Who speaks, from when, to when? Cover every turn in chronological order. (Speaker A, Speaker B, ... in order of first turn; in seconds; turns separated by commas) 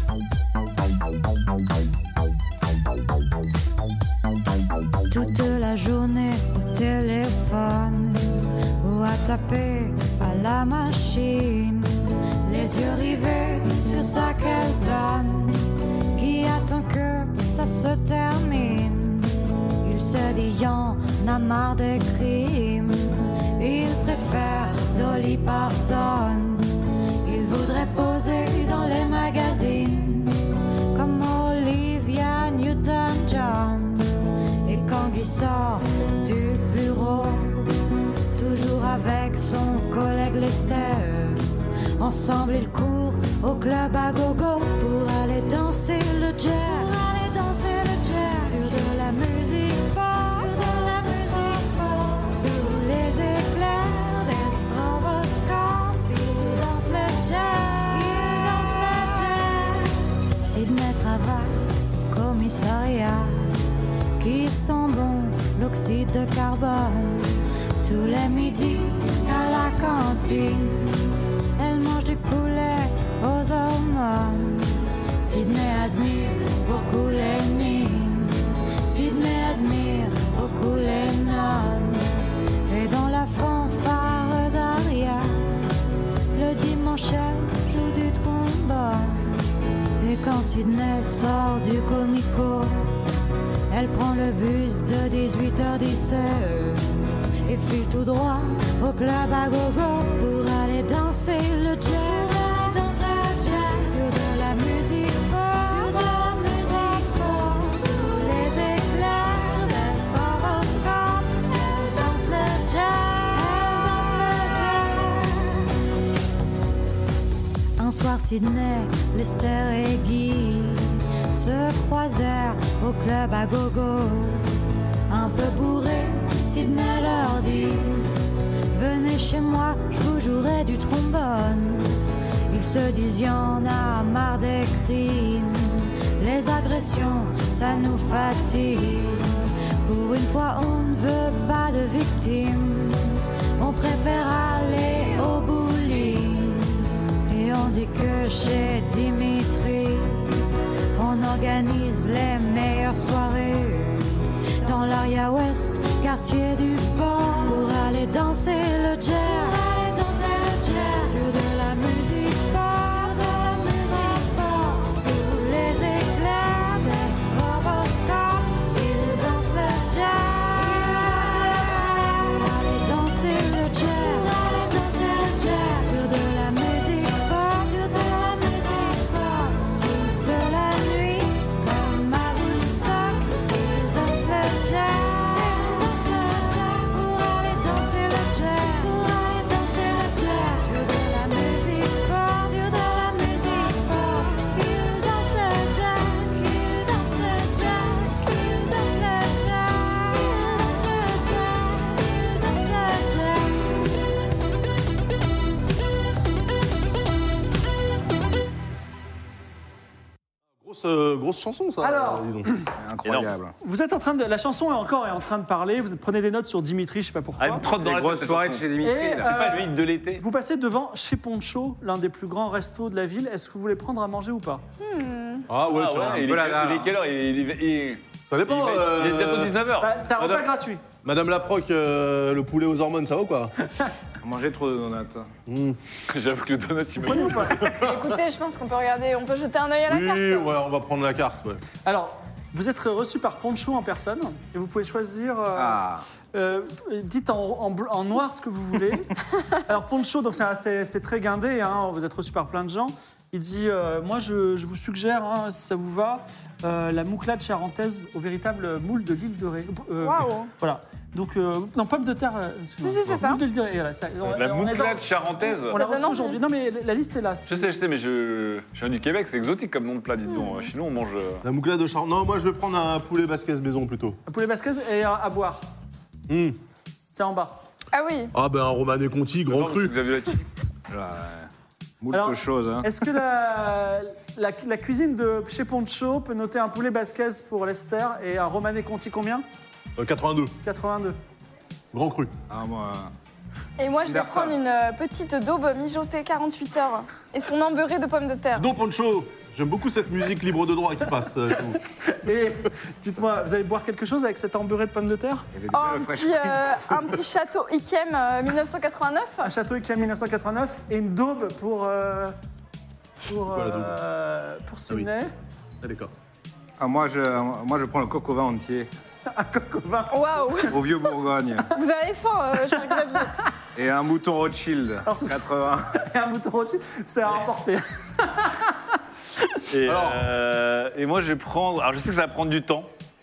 Speaker A: 5.1-30.4, Speaker A: 30.9-34.1, Speaker A: 34.6-37.8, Speaker A: 38.4-41.5, Speaker A: 42.0-63.6, Speaker A: 64.2-67.3, Speaker A: 67.8-71.1, Speaker A: 71.6-82.0, Speaker A: 82.7-85.6, Speaker A: 86.3-89.4, Speaker A: 90.0-93.0, Speaker A: 93.7-115.6, Speaker A: 117.8-124.5, Speaker A: 125.1-128.1, Speaker A: 128.7-131.9, Speaker A: 132.5-150.4, Speaker A: 151.0-203.9, Speaker B: 210.6-212.5, Speaker C: 211.8-212.7, Speaker D: 212.8-213.6, Speaker E: 213.1-213.3, Speaker C: 213.6-217.6, Speaker E: 217.4-220.2, Speaker D: 217.6-219.4, Speaker C: 218.8-224.6, Speaker F: 224.8-225.4, Speaker B: 225.5-226.3, Speaker E: 225.7-230.0, Speaker D: 226.2-226.9, Speaker B: 228.3-230.5, Speaker C: 229.8-230.8, Speaker B: 231.0-233.5, Speaker D: 234.2-235.3, Speaker B: 235.5-235.8, Speaker E: 236.1-237.7, Speaker B: 237.0-238.1, Speaker C: 237.0-237.7, Speaker F: 237.8-240.5, Speaker B: 239.9-241.6, Speaker C: 241.8-245.8, Speaker D: 245.6-246.1, Speaker C: 246.3-249.2, Speaker C: 249.7-265.1, Speaker F: 260.0-260.5, Speaker F: 262.8-263.4, Speaker E: 264.4-265.8, Speaker F: 265.4-266.4, Speaker C: 265.7-267.8, Speaker E: 267.5-271.4, Speaker F: 270.3-270.7, Speaker B: 271.4-274.2, Speaker C: 274.3-275.6, Speaker B: 276.3-276.6, Speaker C: 277.1-277.6, Speaker F: 277.9-278.3, Speaker B: 278.3-279.9, Speaker E: 279.5-280.4, Speaker D: 280.9-281.5, Speaker D: 282.0-282.9, Speaker C: 282.1-289.4, Speaker B: 290.0-290.5, Speaker C: 290.6-291.2, Speaker B: 291.9-292.3, Speaker D: 292.5-293.1, Speaker F: 293.8-298.7, Speaker D: 294.1-294.6, Speaker B: 298.6-301.8, Speaker C: 301.9-305.5, Speaker D: 305.5-306.9, Speaker F: 305.7-309.5, Speaker C: 309.4-312.4, Speaker C: 313.3-315.3, Speaker B: 313.5-314.0, Speaker B: 315.8-316.1, Speaker D: 316.8-318.9, Speaker C: 319.3-320.7, Speaker F: 320.1-320.8, Speaker D: 320.7-321.7, Speaker F: 321.7-323.4, Speaker D: 323.8-325.9, Speaker C: 325.1-328.9, Speaker E: 329.7-332.9, Speaker B: 329.9-330.3